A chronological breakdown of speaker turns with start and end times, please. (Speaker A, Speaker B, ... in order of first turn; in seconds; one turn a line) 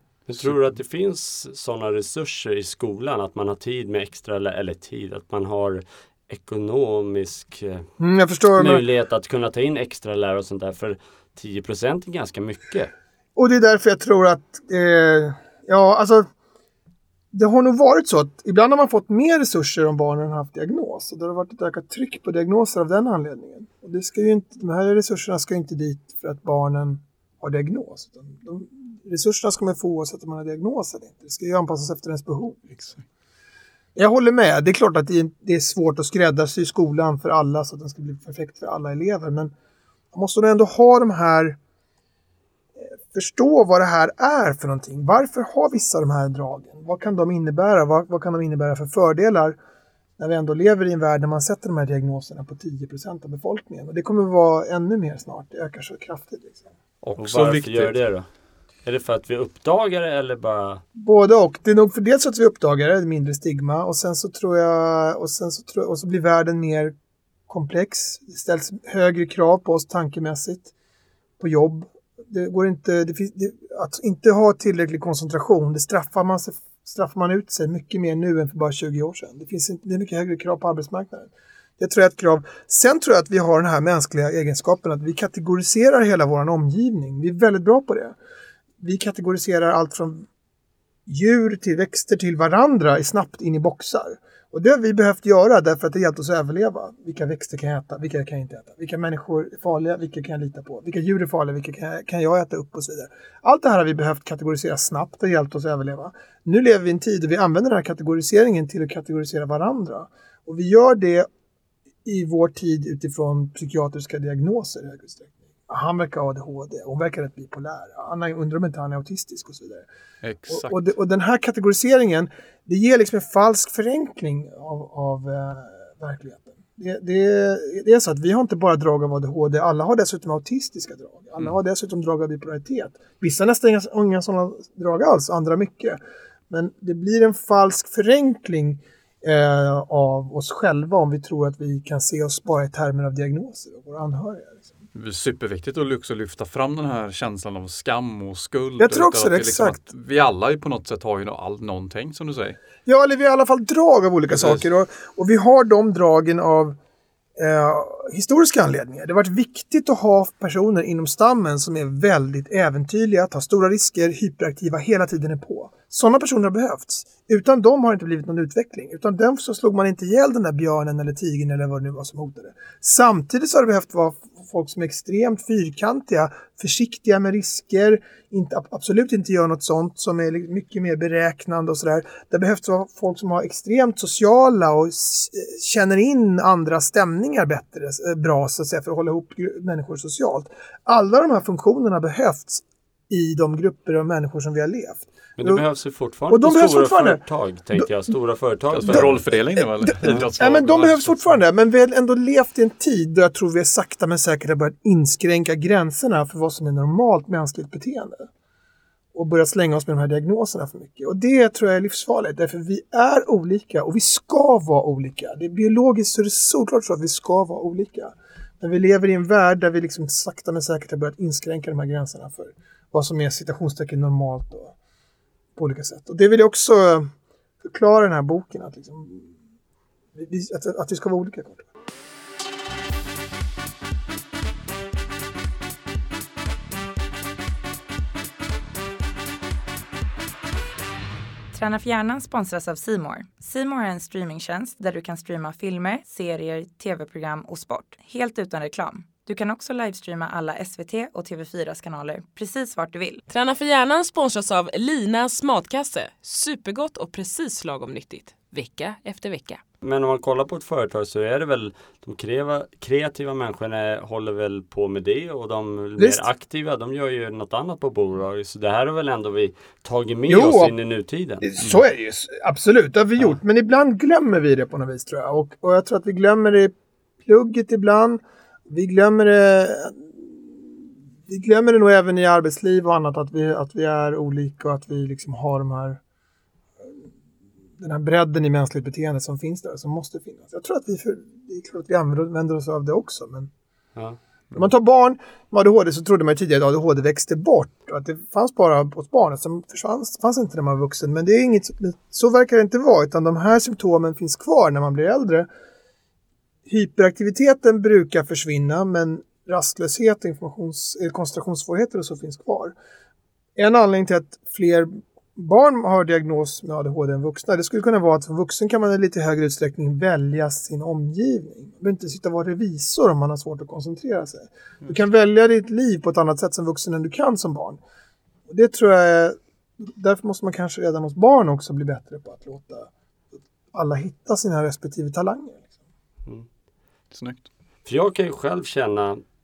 Speaker A: 0.3-7.8
Speaker B: 8.0-8.8
Speaker A: 8.4-12.9
Speaker B: 13.3-16.2
Speaker B: 17.3-33.0
Speaker B: 34.0-39.5
Speaker B: 40.1-41.6
Speaker B: 43.1-49.6
Speaker B: 50.2-56.7
Speaker C: 57.0-57.9
Speaker A: 57.2-58.3
Speaker A: 58.8-60.8
Speaker B: 61.0-66.9
Speaker B: 67.5-70.7
Speaker B: 71.4-88.2
Speaker B: 88.8-90.3
Speaker B: 91.1-111.3
Speaker B: 112.0-119.9
Speaker C: 120.2-120.8
Speaker B: 120.5-136.0
Speaker B: 136.5-144.8
Speaker C: 144.9-152.6
Speaker B: 148.8-149.8
Speaker B: 152.8-156.8
Speaker B: 157.4-195.6
Speaker A: 195.4-199.2
Speaker B: 196.3-198.0
Speaker C: 198.7-201.3
Speaker B: 198.8-208.3
Speaker B: 209.1-224.7
Speaker B: 225.6-227.1
Speaker B: 227.6-229.3
Speaker B: 230.1-231.7
Speaker D: 241.5-253.2
Speaker E: 253.3-259.6
Speaker A: 259.8-271.5
Speaker B: 266.0-266.2
Speaker B: 270.3-270.8
Speaker B: 271.4-276.7
Speaker B: 277.2-286.0
Speaker B: 287.8-293.5
Speaker B: 294.5-305.5
Speaker B: 306.6-312.7
Speaker B: 313.6-327.8
Speaker B: 328.5-335.7
Speaker C: 337.1-337.4
Speaker A: 337.8-339.2